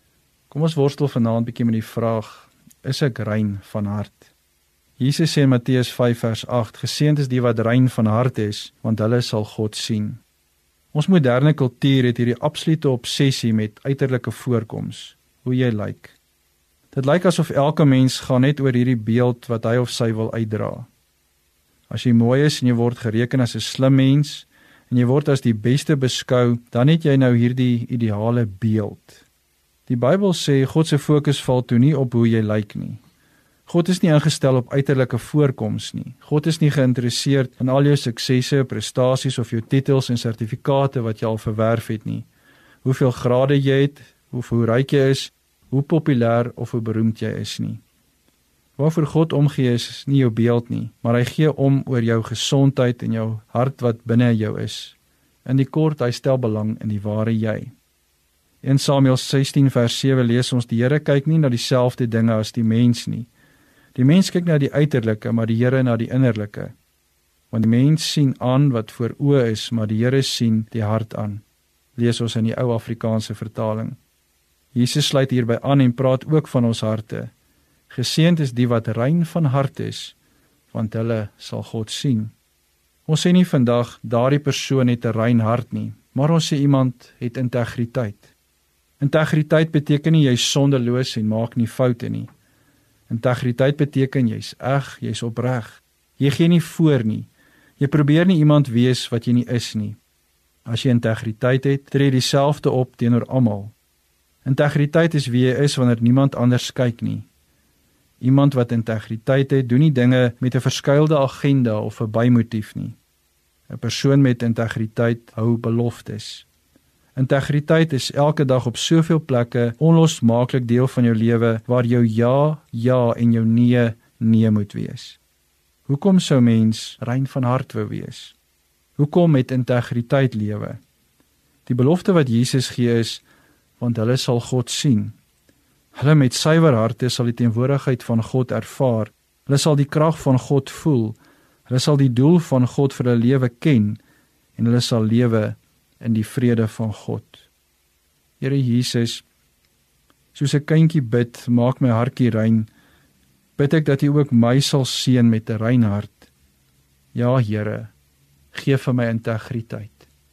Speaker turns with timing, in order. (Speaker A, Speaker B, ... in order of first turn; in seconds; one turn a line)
Speaker A: 0.5-4.3
Speaker A: 5.0-10.2
Speaker A: 10.9-16.2
Speaker A: 16.9-20.9
Speaker A: 21.9-29.2
Speaker A: 29.9-33.0
Speaker A: 33.6-42.3
Speaker A: 42.8-47.8
Speaker A: 48.8-57.7
Speaker A: 58.6-63.3
Speaker A: 63.9-66.7
Speaker A: 67.5-71.4
Speaker A: 72.0-74.0
Speaker A: 74.7-77.3
Speaker A: 77.9-80.2
Speaker A: 80.7-82.3
Speaker A: 83.0-88.3
Speaker A: 89.0-92.3
Speaker A: 93.1-100.0
Speaker A: 100.7-103.7
Speaker A: 104.4-107.3
Speaker A: 108.2-113.0
Speaker A: 113.7-116.5
Speaker A: 117.1-125.2
Speaker A: 125.9-128.3
Speaker A: 129.0-130.8
Speaker A: 131.7-133.2
Speaker A: 133.8-135.1
Speaker A: 135.9-144.0
Speaker A: 144.6-147.5
Speaker A: 148.4-149.2
Speaker A: 150.3-152.7
Speaker A: 153.6-156.3
Speaker A: 157.1-157.9
Speaker A: 158.5-160.1